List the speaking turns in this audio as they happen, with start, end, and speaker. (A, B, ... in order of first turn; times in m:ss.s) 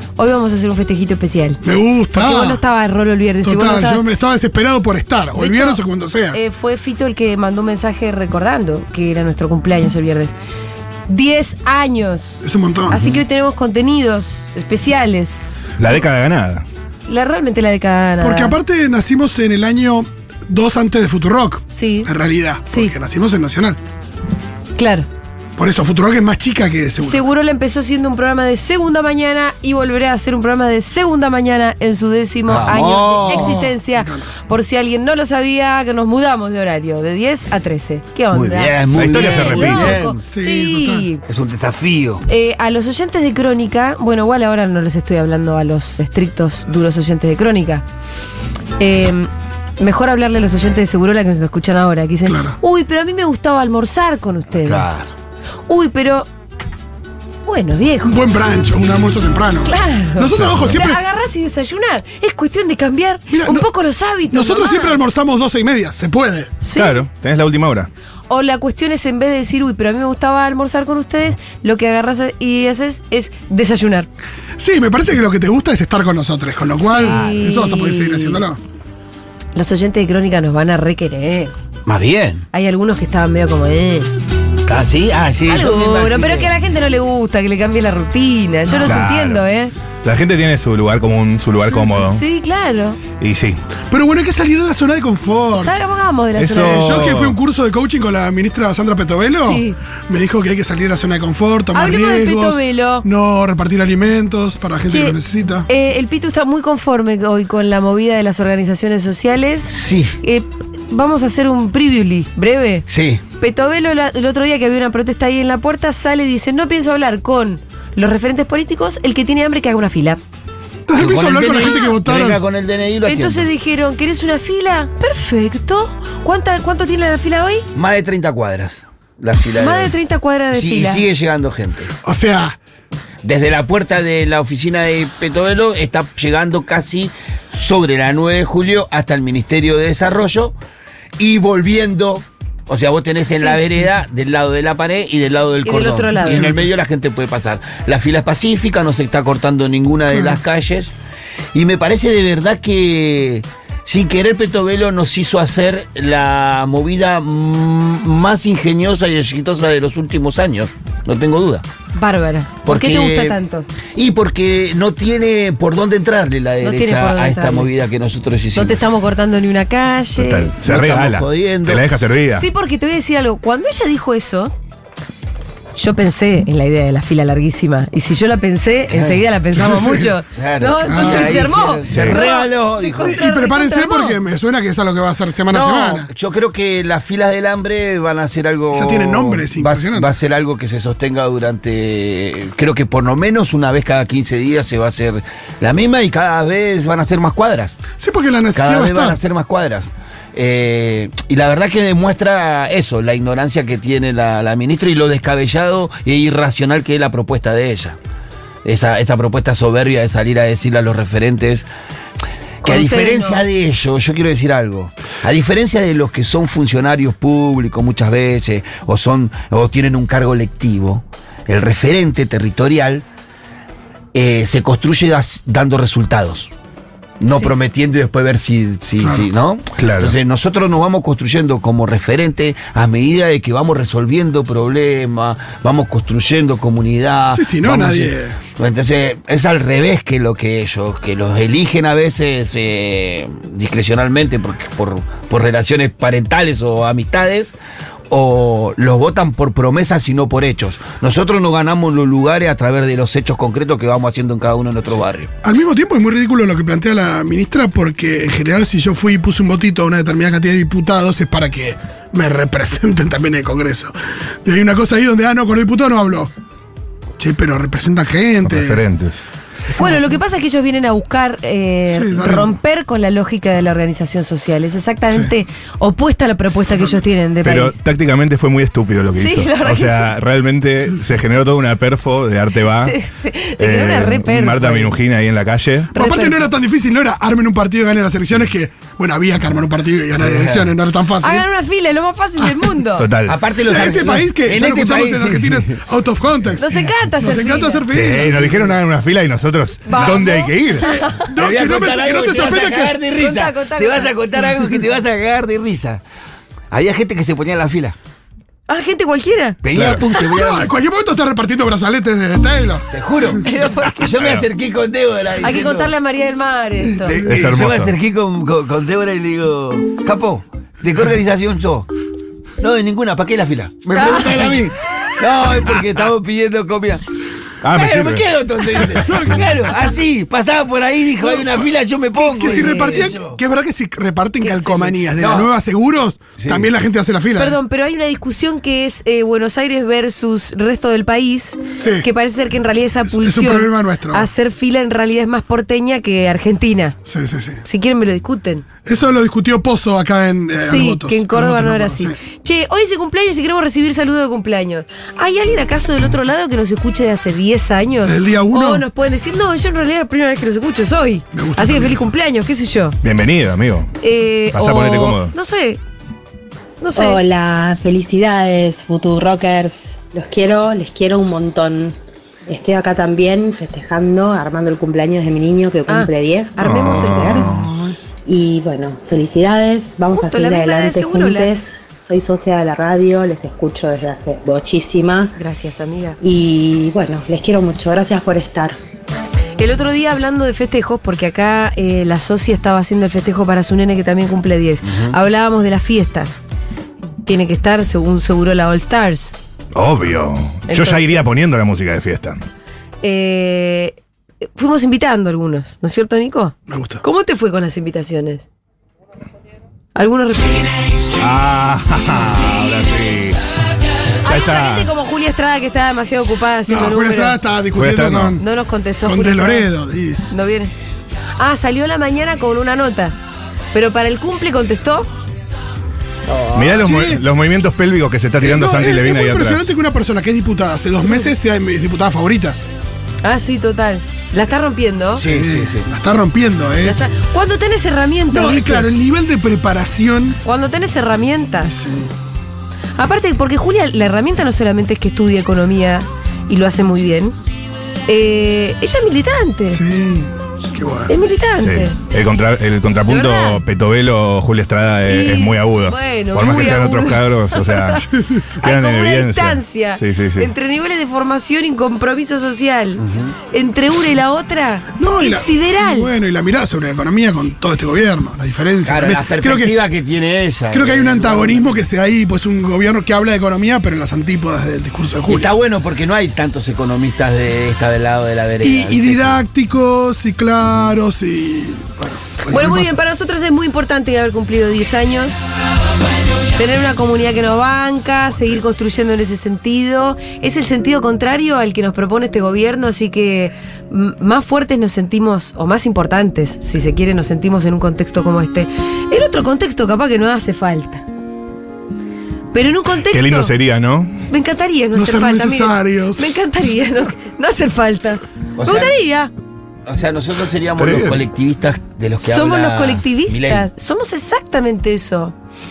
0:00.2-0:01.6 A
0:01.6-0:02.6 B
0:02.1-0:04.0 A
0:03.4-0:06.4 B
0:05.4-0:05.8 A
0:06.3-0:10.3 A
0:11.1-0:15.7 A
0:12.4-0:13.0 B
0:15.8-0:16.6 C
0:17.1-0:18.5 A
0:18.2-0:23.8 B
0:21.7-0:22.1 A
0:22.6-0:22.9 A
0:24.8-0:25.1 A
0:25.6-0:27.2 B
0:27.0-0:41.2 A
0:32.5-0:33.7 D
0:33.2-0:34.3 B
0:38.3-0:40.2 D
0:38.9-0:40.0 C
0:40.2-0:41.1 B
0:41.2-0:42.2 D
0:42.3-0:47.8 A
0:48.8-0:54.9 A
0:52.2-0:52.6 B
0:54.5-0:55.1 D
0:55.7-0:56.3 A
0:57.4-0:58.2 A
0:58.0-1:01.0 B
0:59.6-1:05.0 A
1:00.4-1:00.8 C
1:03.3-1:03.7 B
1:04.3-1:06.5 B
1:06.6-1:07.0 A
1:06.7-1:07.9 C
1:08.3-1:14.1 A
1:14.6-1:18.6 B
1:16.8-1:18.4 A
1:17.0-1:17.4 D
1:19.5-1:21.5 A
1:21.8-1:22.4 D
1:22.5-1:24.1 A
1:24.6-1:26.5 D
1:25.5-1:29.7 A
1:28.7-1:29.4 C
1:28.7-1:29.0 B
1:30.0-1:32.2 C
1:31.6-1:32.1 B
1:32.1-1:33.0 A
1:33.2-1:33.6 C
1:33.9-1:35.7 B
1:35.5-1:37.0 A
1:36.4-1:37.4 C
1:36.5-1:45.7 B
1:39.3-1:39.8 A
1:41.7-1:43.0 A
1:44.9-1:45.2 A
1:45.7-1:52.9 A
1:49.6-1:50.2 D
1:52.9-1:53.2 D
1:53.4-2:00.2 A
2:00.9-2:02.4 B
2:01.0-2:03.5 D
2:01.6-2:01.9 A
2:03.0-2:07.6 A
2:07.7-2:09.9 D
2:09.6-2:11.0 A
2:10.5-2:11.9 D
2:12.0-2:12.6 B
2:13.2-2:20.6 D
2:21.2-2:30.9 D
2:23.3-2:23.8 A
2:25.6-2:26.6 A
2:26.2-2:26.6 B
2:30.1-2:30.4 B
2:31.5-2:41.6 D
2:42.0-2:43.6 A
2:42.6-2:43.4 D
2:43.9-2:48.8 D
2:46.6-2:47.7 A
2:48.5-2:50.5 A
2:50.2-2:52.5 C
2:50.6-2:51.8 D
2:52.3-2:54.5 A
2:55.8-3:04.2 A
2:58.9-2:59.2 D
2:59.5-3:00.1 B
3:00.4-3:03.2 D
3:00.9-3:01.5 B
3:01.9-3:02.2 C
3:02.9-3:06.1 B
3:05.5-3:17.8 D
3:08.7-3:10.1 B
3:18.0-3:19.2 B
3:18.5-3:28.0 D
3:28.6-3:31.7 D
3:32.6-3:33.4 A
3:32.6-3:43.0 D
3:44.1-3:46.5 D
3:47.2-4:07.5 D
3:49.0-3:49.3 B
3:49.8-3:50.2 C
3:57.3-3:58.4 B
4:08.1-4:15.3 D
4:15.4-4:23.9 B
4:24.4-4:26.3 B
4:27.2-4:28.8 B
4:28.4-4:29.2 C
4:29.7-4:30.0 B
4:29.8-4:37.8 A
4:31.9-4:32.5 B
4:37.4-4:43.0 C
4:39.2-4:40.1 A
4:42.8-4:44.9 A
4:43.6-4:45.9 C
4:45.9-4:46.5 A
4:46.0-4:51.4 B
4:50.2-4:50.7 D
4:51.2-4:53.1 A
4:52.4-4:52.7 B
4:53.0-4:53.4 C
4:53.3-4:55.8 D
4:53.7-4:58.8 B
4:56.6-4:57.8 A
4:57.9-5:00.9 C
4:59.8-5:01.3 A
5:00.0-5:00.2 B
5:00.8-5:03.0 B
5:01.4-5:06.0 D
5:03.2-5:04.1 A
5:06.7-5:07.9 D
5:08.7-5:09.6 A
5:09.6-5:10.7 D
5:09.7-5:10.0 C
5:10.2-5:12.9 B
5:12.9-5:13.4 D
5:13.4-5:14.1 A
5:14.0-5:15.9 D
5:14.2-5:14.4 C
5:15.4-5:17.2 A
5:17.0-5:17.4 B
5:17.0-5:21.9 D
5:17.2-5:17.9 C
5:22.6-5:27.0 D
5:23.9-5:24.5 A
5:27.6-5:28.3 C
5:27.7-5:33.4 D
5:29.0-5:29.5 B
5:32.2-5:33.1 A
5:32.4-5:37.6 B
5:34.4-5:34.9 A
5:35.2-5:35.5 D
5:36.4-5:36.7 D
5:37.4-5:46.9 A
5:41.8-5:42.0 B
5:43.0-5:44.3 B
5:47.0-5:47.6 B
5:47.6-5:48.6 A
5:48.8-5:52.2 B
5:50.6-6:03.0 A
5:58.0-5:58.8 B
6:01.3-6:02.1 B
6:03.0-6:03.9 C
6:04.0-6:05.8 A
6:04.5-6:05.3 C
6:06.8-6:07.2 A
6:06.9-6:11.9 E
6:12.5-6:17.5 E
6:15.9-6:17.5 A
6:16.6-6:17.7 C
6:18.2-6:25.4 E
6:20.1-6:21.6 A
6:25.4-6:26.2 A
6:26.2-6:28.8 E
6:29.6-6:36.3 A
6:34.8-6:35.2 D
6:37.2-6:39.4 A
6:39.7-6:42.4 C
6:40.7-6:41.4 A
6:43.0-6:44.0 A
6:44.6-6:48.4 A
6:46.7-6:47.0 B
6:50.0-6:50.7 A
6:51.2-6:53.4 C
6:54.2-6:57.4 A
6:54.2-6:54.9 C
6:56.7-6:58.4 B
6:57.8-6:58.4 C
6:58.4-6:59.7 A
6:59.0-7:00.2 B
7:00.3-7:00.7 A
7:01.4-7:03.2 A
7:03.7-7:05.1 A
7:06.3-7:06.6 A
7:06.5-7:09.7 C
7:06.8-7:07.2 B
7:08.4-7:12.6 B
7:13.2-7:15.2 A
7:15.2-7:15.9 D
7:15.3-7:17.0 B
7:16.8-7:18.9 A
7:18.3-7:20.4 B
7:20.4-7:21.7 A
7:21.6-7:22.1 B
7:23.0-7:27.4 A
7:28.1-7:29.8 A
7:29.7-7:31.1 B
7:31.1-7:31.9 A
7:31.6-7:38.1 C
7:33.1-7:33.6 A
7:35.0-7:38.0 A
7:38.0-7:38.6 B
7:38.6-7:40.5 C
7:38.6-7:46.1 A
7:43.0-7:43.3 D
7:45.0-7:49.8 B
7:48.8-7:51.8 D
7:50.7-7:55.5 B
7:55.2-7:59.4 D
7:58.6-8:03.0 B
8:02.5-8:05.4 A
8:06.6-8:21.0 A
8:22.5-8:23.5 A
8:23.1-8:24.2 C
8:24.3-8:29.3 A
8:24.9-8:26.4 B
8:28.6-8:29.0 D
8:29.8-8:33.6 D
8:30.8-8:31.2 C
8:32.2-8:35.3 A